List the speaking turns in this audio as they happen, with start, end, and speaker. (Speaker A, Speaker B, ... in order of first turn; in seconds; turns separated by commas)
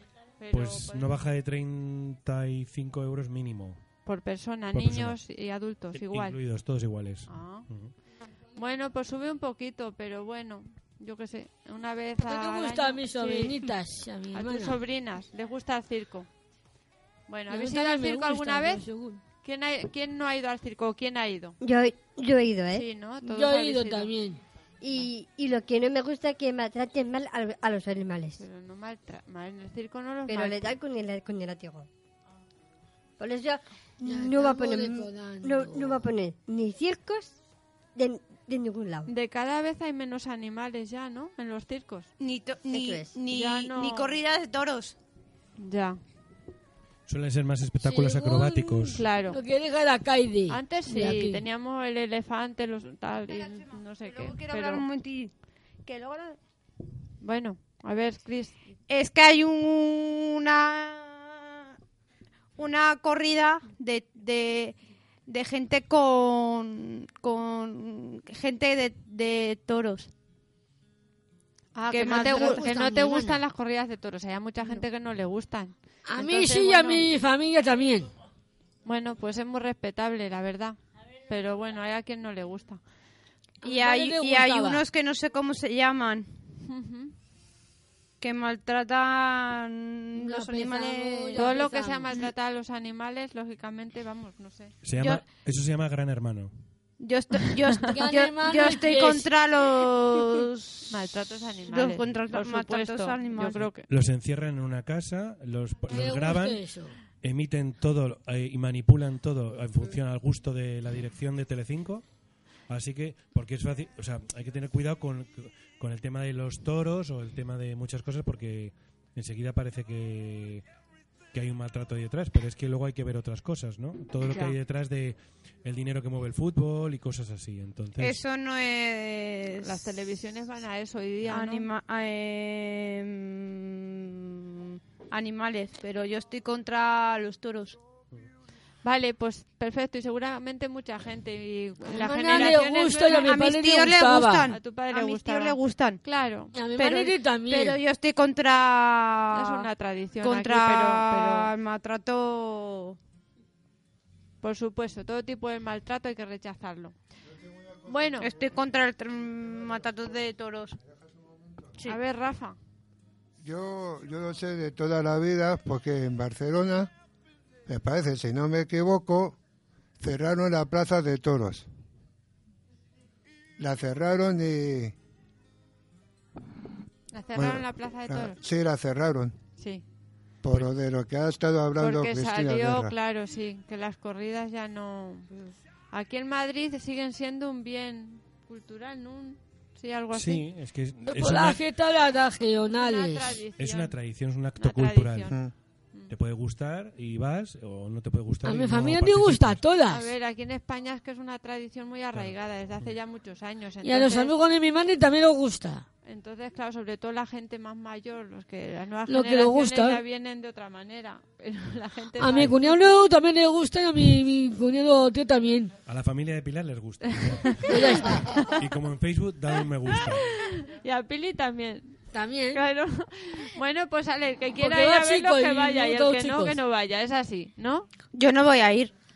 Speaker A: 0.4-1.1, Speaker B: 0.5-3.8, Speaker A: 4.1-6.4, Speaker B: 4.7-5.2, Speaker B: 5.9-7.9, Speaker A: 7.3-7.7, Speaker A: 8.6-13.6, Speaker C: 12.2-14.8, Speaker A: 14.3-16.3, Speaker A: 17.3-18.9, Speaker C: 17.5-19.2, Speaker A: 19.4-21.6, Speaker D: 21.6-22.9, Speaker A: 22.7-24.1, Speaker C: 23.2-24.4, Speaker D: 24.8-28.4, Speaker A: 28.4-30.8, Speaker D: 30.3-31.9, Speaker D: 33.2-37.4, Speaker C: 34.0-36.0, Speaker D: 38.0-39.1, Speaker A: 39.1-42.1, Speaker E: 42.2-45.0, Speaker D: 42.7-43.1, Speaker A: 43.3-44.2, Speaker A: 45.6-46.0, Speaker B: 47.1-49.1, Speaker C: 47.8-51.4, Speaker A: 48.9-49.4, Speaker A: 50.5-54.9, Speaker E: 53.5-55.3, Speaker E: 55.9-56.4, Speaker A: 57.2-58.6, Speaker E: 58.9-61.7, Speaker E: 62.6-70.1, Speaker E: 71.8-72.7, Speaker A: 71.9-77.1, Speaker C: 72.0-73.4, Speaker C: 76.1-78.1, Speaker A: 78.9-80.8, Speaker A: 81.3-82.8, Speaker E: 83.6-86.3, Speaker C: 83.6-84.8, Speaker A: 86.6-87.1, Speaker E: 88.2-91.5, Speaker C: 90.2-92.1, Speaker A: 91.4-94.7, Speaker B: 94.8-96.5, Speaker E: 97.0-100.9, Speaker C: 97.9-99.3, Speaker A: 100.9-103.9, Speaker E: 101.7-103.7, Speaker B: 103.9-112.0, Speaker C: 105.9-107.0, Speaker B: 112.7-120.7, Speaker B: 121.3-128.2, Speaker A: 124.3-124.5, Speaker E: 128.0-129.8, Speaker A: 129.6-131.7, Speaker E: 131.2-137.8, Speaker A: 138.8-143.3, Speaker C: 141.9-144.5, Speaker E: 143.1-146.0, Speaker A: 144.5-146.5, Speaker C: 146.5-147.8, Speaker E: 146.8-149.7, Speaker A: 149.3-151.5, Speaker E: 150.2-153.0, Speaker A: 154.4-156.9, Speaker F: 157.4-158.2, Speaker A: 157.9-158.3, Speaker E: 158.2-160.8, Speaker F: 161.1-161.6, Speaker A: 161.9-162.6, Speaker F: 163.4-166.9, Speaker F: 167.7-169.4, Speaker F: 170.0-171.7, Speaker F: 173.6-175.0, Speaker A: 177.1-178.4, Speaker F: 177.3-179.4, Speaker A: 179.6-179.8, Speaker F: 180.4-182.9, Speaker A: 181.8-185.3, Speaker A: 185.9-190.4, Speaker B: 190.1-191.6, Speaker C: 191.1-193.4, Speaker A: 192.7-193.9, Speaker B: 193.6-195.4, Speaker A: 194.6-195.4, Speaker B: 196.1-199.6, Speaker C: 198.4-200.1, Speaker A: 199.9-204.3, Speaker C: 203.8-205.9, Speaker A: 206.1-212.8, Speaker C: 209.1-210.0, Speaker C: 212.2-215.7, Speaker B: 215.9-220.3, Speaker A: 217.3-218.6, Speaker C: 217.7-218.3, Speaker A: 219.9-222.0, Speaker C: 222.1-222.6, Speaker A: 222.5-227.9, Speaker C: 224.6-226.6, Speaker E: 228.1-228.9